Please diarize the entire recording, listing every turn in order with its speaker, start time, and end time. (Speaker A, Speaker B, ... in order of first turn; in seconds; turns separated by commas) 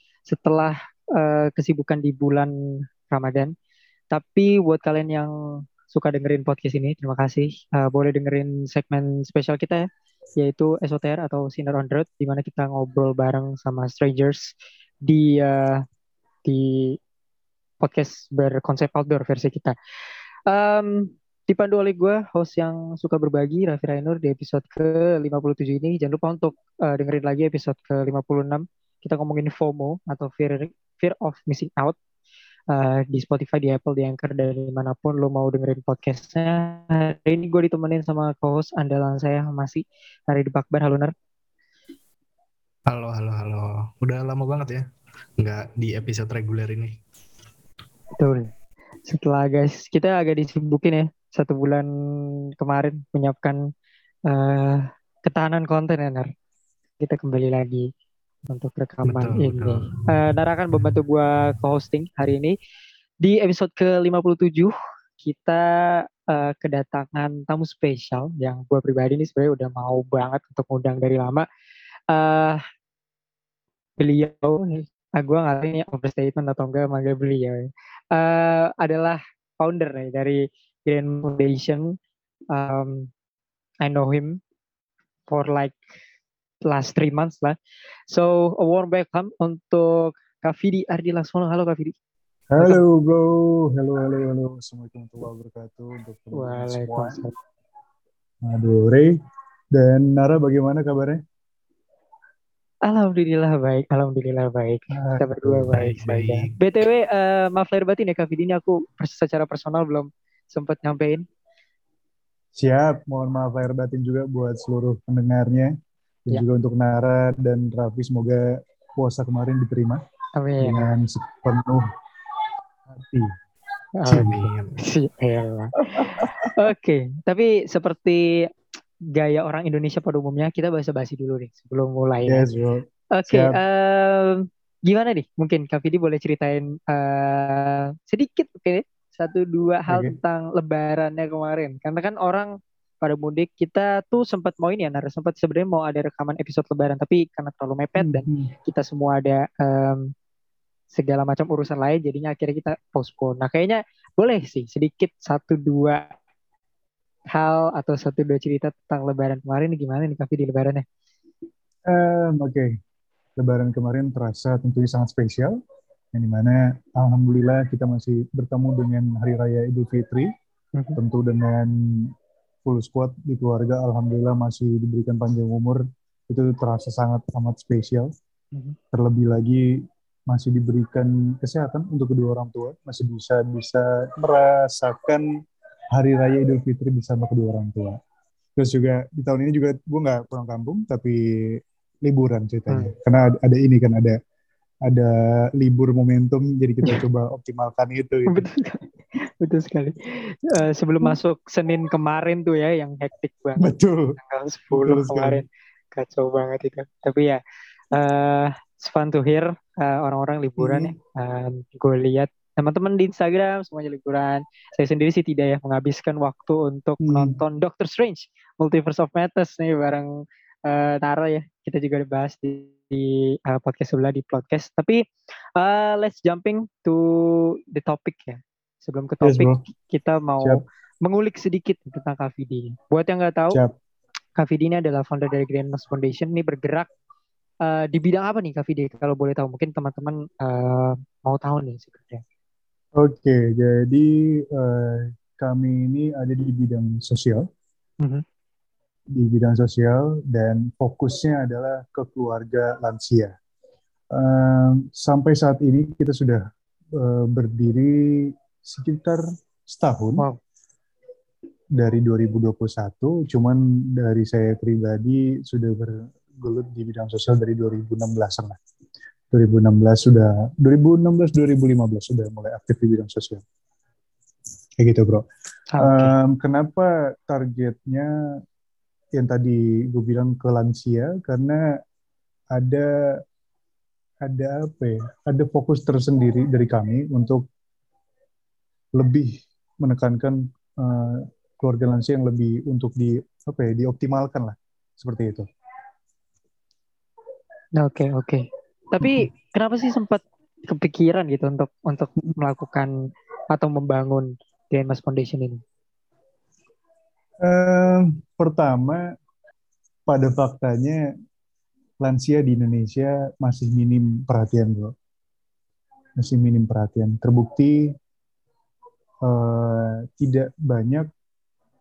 Speaker A: 0.3-2.5, Speaker A: 3.1-3.5, Speaker A: 4.1-5.3, Speaker A: 5.9-9.9, Speaker A: 10.4-14.5, Speaker A: 15.1-15.8, Speaker A: 16.5-17.0, Speaker A: 17.8-19.8, Speaker A: 20.5-32.0, Speaker A: 32.7-41.1, Speaker B: 42.9-44.9, Speaker B: 45.4-47.0, Speaker A: 48.2-48.5, Speaker A: 49.1-51.9, Speaker A: 52.6-53.6, Speaker A: 54.3-56.3, Speaker A: 57.0-57.9, Speaker A: 58.5-62.5, Speaker B: 59.1-60.0, Speaker A: 63.2-71.5, Speaker A: 72.1-72.6, Speaker A: 74.0-82.0, Speaker A: 82.5-83.1, Speaker A: 83.8-84.4, Speaker A: 85.3-85.8, Speaker A: 86.6-87.6, Speaker A: 88.1-92.0, Speaker C: 92.5-97.2, Speaker A: 96.3-97.3, Speaker C: 98.4-99.2, Speaker C: 99.7-101.2, Speaker A: 102.9-111.3, Speaker C: 104.9-105.7, Speaker B: 105.7-106.5, Speaker C: 112.5-115.7, Speaker C: 116.3-120.0, Speaker A: 120.4-120.9, Speaker C: 120.6-121.9, Speaker C: 122.9-123.4, Speaker A: 124.0-128.5, Speaker B: 124.1-124.8, Speaker C: 124.1-124.5, Speaker C: 126.0-126.5, Speaker A: 129.2-132.5, Speaker C: 132.3-133.6, Speaker A: 133.1-150.1, Speaker C: 139.9-140.2, Speaker C: 148.0-148.5, Speaker A: 150.9-156.1, Speaker A: 157.3-160.8, Speaker C: 161.9-162.7, Speaker C: 163.4-165.6, Speaker C: 166.1-170.3, Speaker C: 171.0-172.1, Speaker C: 172.7-178.1, Speaker C: 178.9-185.3, Speaker C: 185.9-188.0, Speaker C: 188.6-194.2, Speaker C: 194.9-198.5, Speaker A: 198.3-207.4, Speaker C: 203.6-204.2, Speaker C: 204.7-205.4, Speaker A: 207.9-220.1, Speaker C: 210.6-210.9, Speaker C: 217.0-217.4, Speaker A: 220.7-225.0, Speaker A: 225.6-233.6, Speaker C: 229.2-229.6, Speaker A: 234.4-236.9, Speaker A: 237.6-242.2, Speaker C: 243.0-247.5, Speaker C: 249.1-253.3, Speaker C: 254.1-256.4, Speaker C: 256.9-260.3, Speaker C: 261.8-268.6, Speaker C: 269.3-273.4, Speaker C: 274.8-275.3, Speaker A: 275.7-276.1, Speaker C: 275.8-278.4, Speaker C: 279.2-281.6, Speaker C: 282.5-283.2, Speaker C: 284.2-287.4, Speaker C: 288.9-295.5, Speaker A: 297.8-302.9, Speaker C: 299.0-299.3, Speaker A: 303.5-305.6, Speaker C: 307.4-309.1, Speaker C: 310.1-311.1, Speaker C: 312.0-314.9, Speaker C: 316.2-317.9, Speaker C: 319.2-321.1